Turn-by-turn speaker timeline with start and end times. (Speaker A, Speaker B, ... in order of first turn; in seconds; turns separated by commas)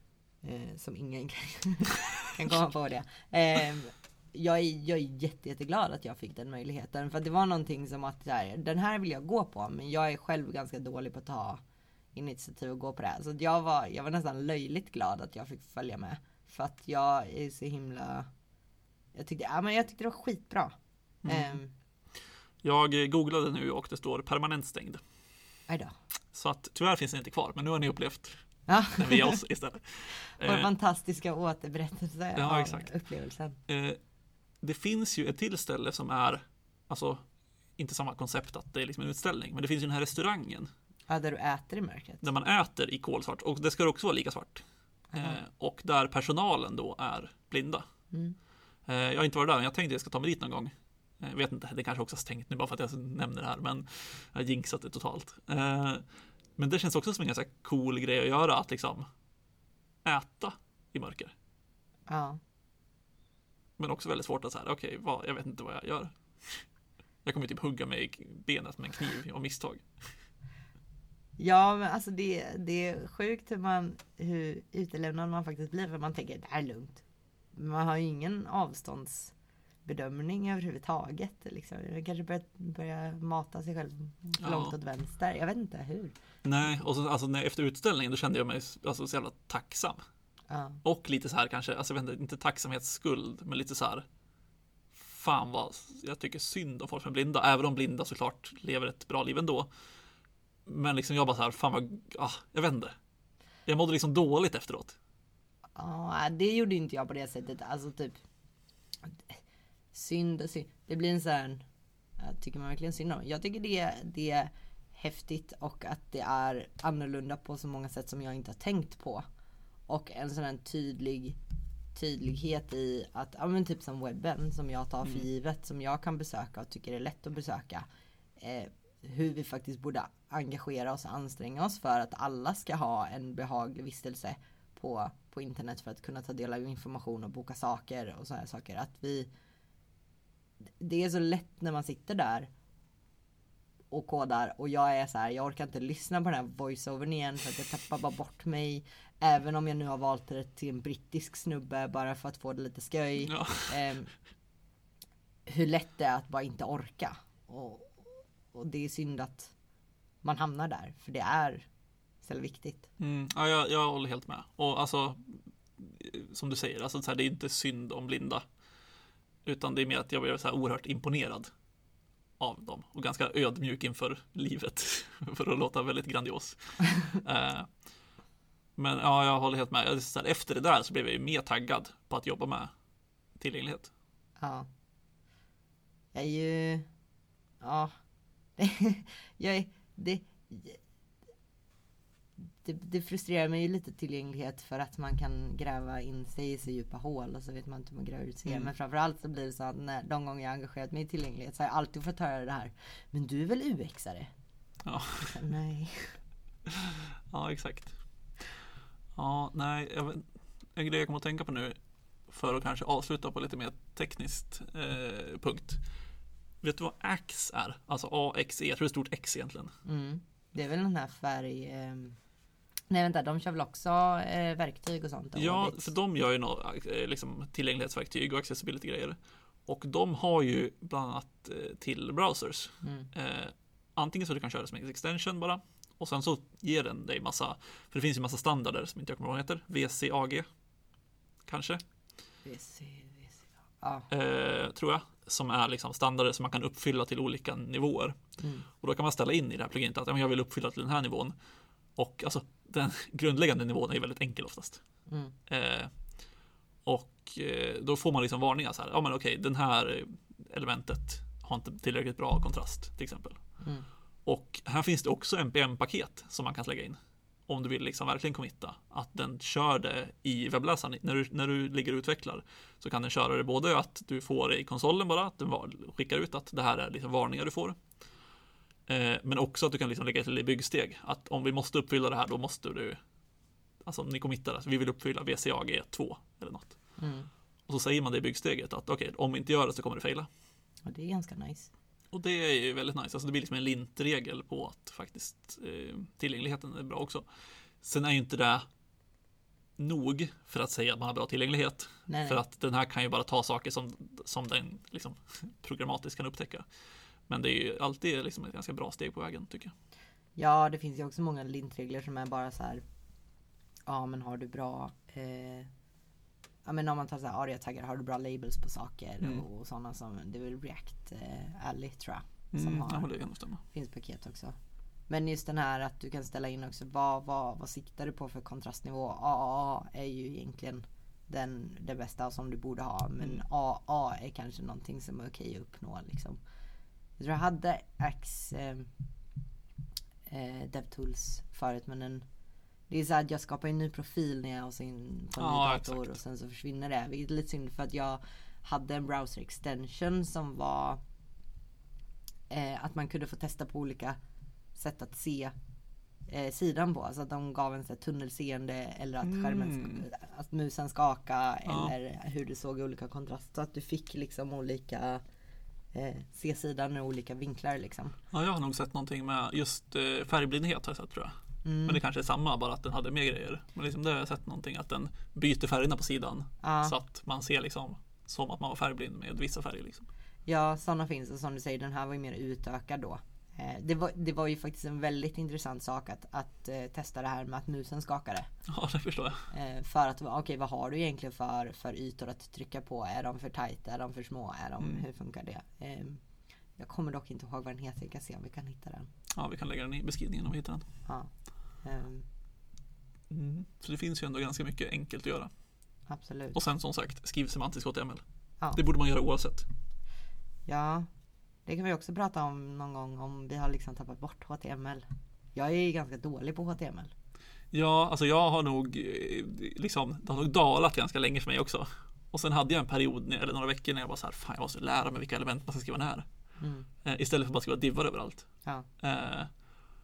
Speaker A: 0.4-11.6, Speaker A: 12.1-18.3, Speaker A: 19.1-21.7, Speaker B: 21.2-21.6, Speaker B: 22.6-25.0, Speaker A: 25.7-25.9, Speaker B: 26.3-28.4, Speaker A: 28.7-29.4, Speaker B: 28.9-30.7, Speaker A: 30.2-33.6, Speaker B: 32.4-32.9, Speaker B: 33.7-34.0, Speaker B: 34.6-37.2, Speaker B: 37.8-40.7, Speaker A: 41.1-42.2, Speaker B: 42.2-44.6, Speaker A: 45.1-45.4, Speaker B: 45.1-47.8, Speaker B: 48.9-56.0, Speaker B: 56.6-59.0, Speaker B: 60.0-61.3, Speaker A: 62.1-62.4, Speaker B: 63.8-66.7, Speaker B: 67.2-69.8, Speaker A: 71.4-77.0, Speaker A: 77.5-79.3, Speaker A: 79.8-86.1, Speaker B: 84.4-84.7, Speaker B: 86.4-90.0, Speaker A: 90.5-90.8, Speaker B: 90.8-94.0, Speaker B: 94.9-99.7, Speaker B: 100.7-102.9, Speaker B: 103.7-105.0, Speaker A: 105.8-108.2, Speaker A: 109.1-109.4, Speaker A: 109.9-111.6, Speaker A: 112.2-119.2, Speaker A: 119.9-121.4, Speaker A: 121.9-127.9, Speaker A: 128.4-139.3, Speaker A: 140.8-142.5, Speaker A: 143.9-154.1, Speaker B: 153.2-153.8, Speaker A: 155.5-159.5, Speaker A: 160.2-161.7, Speaker A: 162.2-162.9, Speaker B: 163.0-168.4, Speaker B: 169.4-171.5, Speaker B: 172.4-177.7, Speaker B: 178.8-182.7, Speaker B: 183.4-183.9, Speaker A: 184.4-184.7, Speaker A: 186.1-186.9, Speaker A: 187.6-187.9, Speaker A: 188.6-190.8, Speaker A: 192.6-204.3, Speaker B: 204.8-205.4, Speaker A: 205.2-206.2, Speaker B: 206.7-207.9, Speaker B: 209.1-211.8, Speaker B: 212.3-215.8, Speaker B: 216.6-219.7, Speaker A: 219.8-222.2, Speaker A: 222.9-225.9, Speaker B: 225.3-240.4, Speaker A: 232.8-233.1, Speaker B: 241.4-241.8, Speaker A: 242.4-244.1, Speaker B: 244.1-248.2, Speaker A: 248.4-248.7, Speaker B: 248.8-251.3, Speaker B: 251.9-254.8, Speaker A: 255.1-255.3, Speaker B: 255.5-255.9, Speaker B: 256.8-263.4, Speaker B: 264.2-277.8, Speaker B: 278.9-283.0, Speaker B: 283.8-286.8, Speaker A: 287.0-287.3, Speaker B: 287.7-290.3, Speaker A: 290.9-291.7, Speaker B: 292.1-297.2, Speaker B: 297.8-298.6, Speaker B: 299.8-306.6, Speaker A: 302.1-302.4, Speaker B: 307.3-309.7, Speaker A: 310.4-312.8, Speaker A: 313.9-315.7, Speaker A: 316.6-323.1, Speaker B: 322.5-323.6, Speaker A: 323.7-324.5, Speaker A: 325.1-336.4, Speaker A: 337.2-338.9, Speaker A: 340.3-342.2, Speaker A: 342.9-351.0, Speaker B: 345.4-346.1, Speaker A: 352.5-354.2, Speaker A: 354.7-355.5, Speaker A: 356.3-365.2, Speaker B: 359.2-360.0, Speaker B: 361.6-361.9, Speaker A: 365.9-368.1, Speaker B: 368.3-371.3, Speaker A: 371.6-372.0, Speaker B: 371.9-380.1, Speaker A: 376.6-376.9, Speaker A: 380.5-388.5, Speaker B: 388.7-389.5, Speaker A: 389.5-396.2, Speaker A: 396.8-399.1, Speaker B: 399.3-400.8, Speaker A: 401.1-401.3, Speaker A: 401.8-402.2, Speaker B: 403.3-405.5, Speaker A: 406.1-406.6, Speaker B: 406.5-408.2, Speaker B: 408.7-409.7, Speaker A: 410.7-411.1, Speaker A: 411.6-417.1, Speaker B: 417.7-426.3, Speaker A: 426.6-426.9, Speaker B: 427.0-428.5, Speaker B: 429.0-429.5